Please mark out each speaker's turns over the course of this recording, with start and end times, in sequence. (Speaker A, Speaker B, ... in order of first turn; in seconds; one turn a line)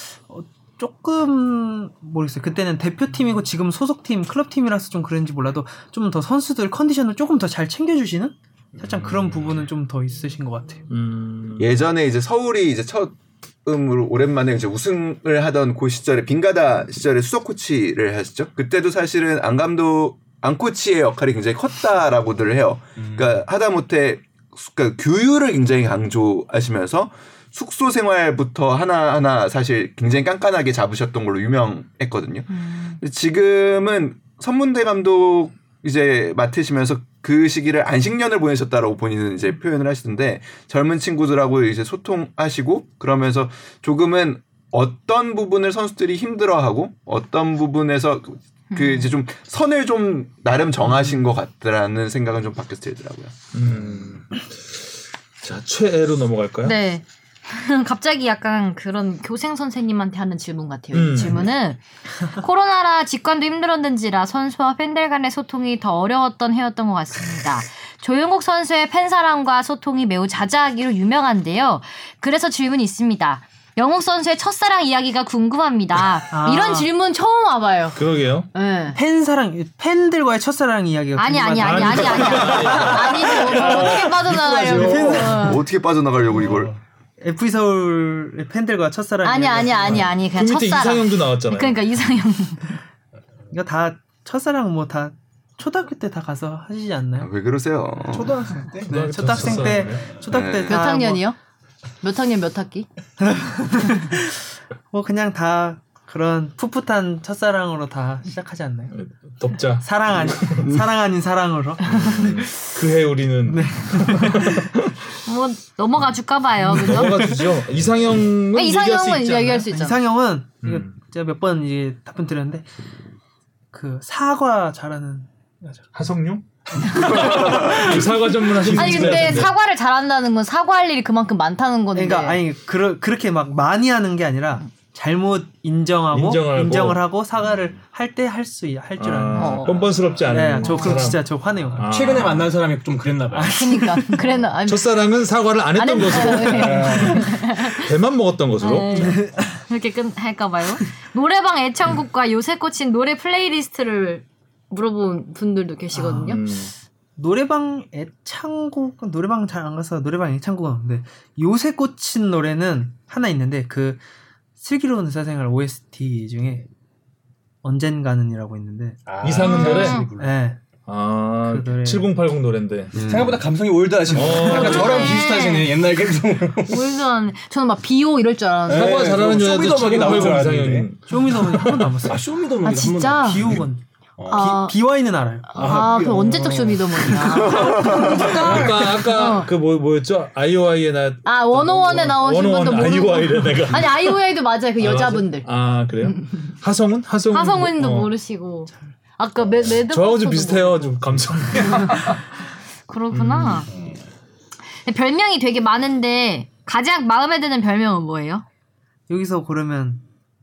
Speaker A: 0.3-10.8
Speaker B: 10.9-11.8
Speaker C: 11.6-53.3
Speaker D: 23.0-23.3
Speaker E: 32.5-33.0
Speaker E: 48.7-49.1
Speaker B: 53.5-54.8
Speaker B: 55.4-56.8
Speaker E: 56.6-78.0
Speaker B: 60.9-61.5
Speaker A: 76.3-76.9
Speaker B: 78.0-78.5
Speaker E: 78.5-79.0
Speaker A: 78.9-85.5
Speaker E: 81.2-85.6
Speaker B: 81.6-83.9
Speaker D: 83.3-85.3
Speaker C: 84.5-86.7
Speaker D: 86.4-86.7
Speaker A: 87.2-90.1
Speaker E: 89.2-92.8
Speaker B: 89.9-91.8
Speaker A: 93.5-97.3
Speaker C: 97.2-98.3
Speaker D: 98.1-99.1
Speaker A: 98.8-101.2
Speaker B: 98.8-100.1
Speaker C: 100.3-100.9
Speaker E: 100.7-101.3
Speaker E: 102.0-102.9
Speaker A: 103.2-108.9
Speaker B: 108.9-110.7
Speaker A: 109.8-112.8
Speaker B: 111.8-115.1
Speaker A: 113.4-114.7
Speaker E: 115.2-117.5
Speaker B: 116.6-119.7
Speaker E: 118.5-120.0
Speaker A: 119.7-122.7
Speaker B: 120.6-120.9
Speaker A: 123.7-125.8
Speaker B: 125.9-129.5
Speaker A: 126.8-128.0
Speaker A: 128.6-129.2
Speaker E: 128.7-132.4
Speaker A: 131.9-141.9
Speaker B: 136.1-137.0
Speaker B: 139.0-142.5
Speaker E: 139.3-139.9
Speaker E: 140.6-141.0
Speaker D: 141.8-143.6
Speaker A: 143.3-144.3
Speaker E: 143.5-145.1
Speaker B: 144.6-149.2
Speaker E: 145.7-147.9
Speaker D: 146.5-147.1
Speaker E: 148.6-156.4
Speaker A: 149.0-149.6
Speaker A: 155.9-156.4
Speaker B: 156.2-156.7
Speaker A: 157.2-164.0
Speaker A: 164.6-166.7
Speaker A: 167.6-169.0
Speaker D: 169.1-170.4
Speaker B: 169.2-170.0
Speaker E: 169.4-170.1
Speaker A: 170.2-170.6
Speaker B: 170.9-172.9
Speaker A: 171.4-172.1
Speaker C: 172.9-173.4
Speaker D: 173.0-176.9
Speaker B: 174.1-175.1
Speaker E: 174.4-175.7
Speaker E: 176.7-179.2
Speaker D: 178.7-180.9
Speaker B: 178.7-181.9
Speaker A: 181.1-182.2
Speaker D: 182.0-183.7
Speaker E: 182.6-183.4
Speaker A: 183.2-185.7
Speaker D: 184.2-184.5
Speaker E: 184.3-184.8
Speaker E: 185.5-189.5
Speaker D: 185.6-187.1
Speaker B: 185.6-186.7
Speaker C: 187.2-188.3
Speaker B: 188.0-194.2
Speaker D: 188.1-188.8
Speaker E: 191.2-195.5
Speaker B: 194.8-198.1
Speaker E: 196.0-196.4
Speaker E: 197.3-201.0
Speaker B: 199.9-202.2
Speaker E: 201.6-202.2
Speaker E: 202.9-203.7
Speaker B: 203.1-203.7
Speaker D: 203.7-204.0
Speaker E: 204.8-208.4
Speaker A: 209.1-210.0